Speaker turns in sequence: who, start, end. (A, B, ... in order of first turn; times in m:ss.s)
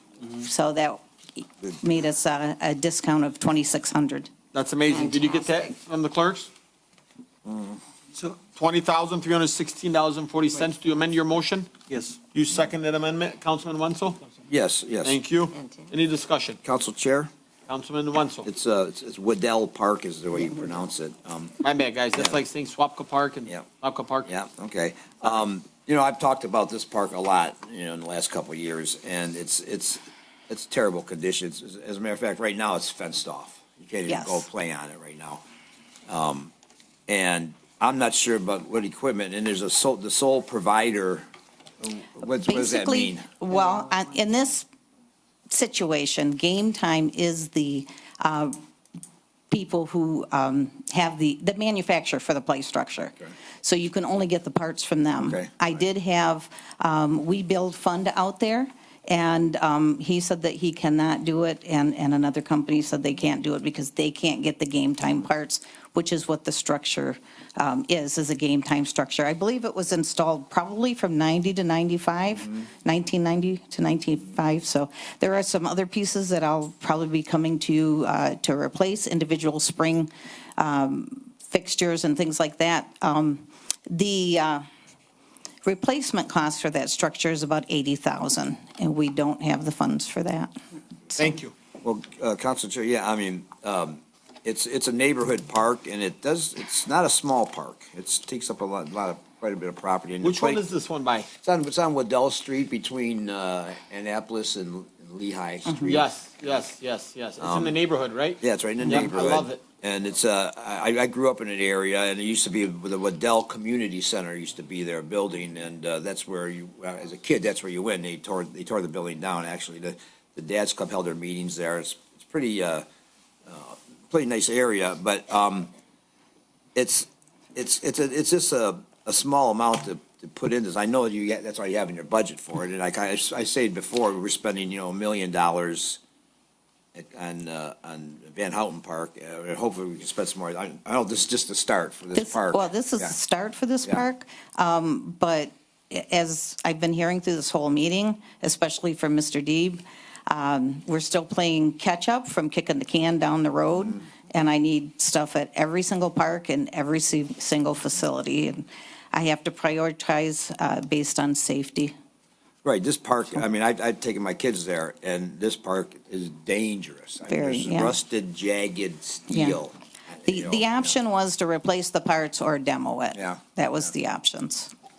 0:00.4-0:04.3 A
0:04.5-0:06.5 B
0:07.5-0:07.8 C
0:08.5-0:14.2 B
0:14.5-0:15.2 C
0:15.0-0:16.6 B
0:16.6-0:17.3 C
0:17.7-0:18.5 B
0:18.4-0:21.6 C
0:21.6-0:24.3 B
0:24.3-0:35.4 C
0:34.1-0:34.5 A
0:36.1-0:36.5 C
0:37.1-0:41.3 C
0:41.8-0:43.3 C
0:42.4-0:44.7 A
0:45.5-0:48.6 A
0:49.5-1:24.6 A
0:55.2-0:55.7 C
1:25.6-1:30.5 A
1:31.2-1:31.5 B
1:31.8-1:40.6 C
1:40.2-1:41.3 B
1:41.4-1:46.1 C
1:45.8-1:49.6 B
1:47.4-1:47.8 C
1:48.4-2:02.9 C
2:03.5-2:05.7 C
2:06.8-2:16.0 C
2:16.9-2:23.2 C
2:22.1-2:41.9 A
2:42.6-2:50.9 C
2:47.3-2:48.0 A
2:49.3-2:49.6 A
2:50.2-2:54.7 A
2:53.2-2:53.4 C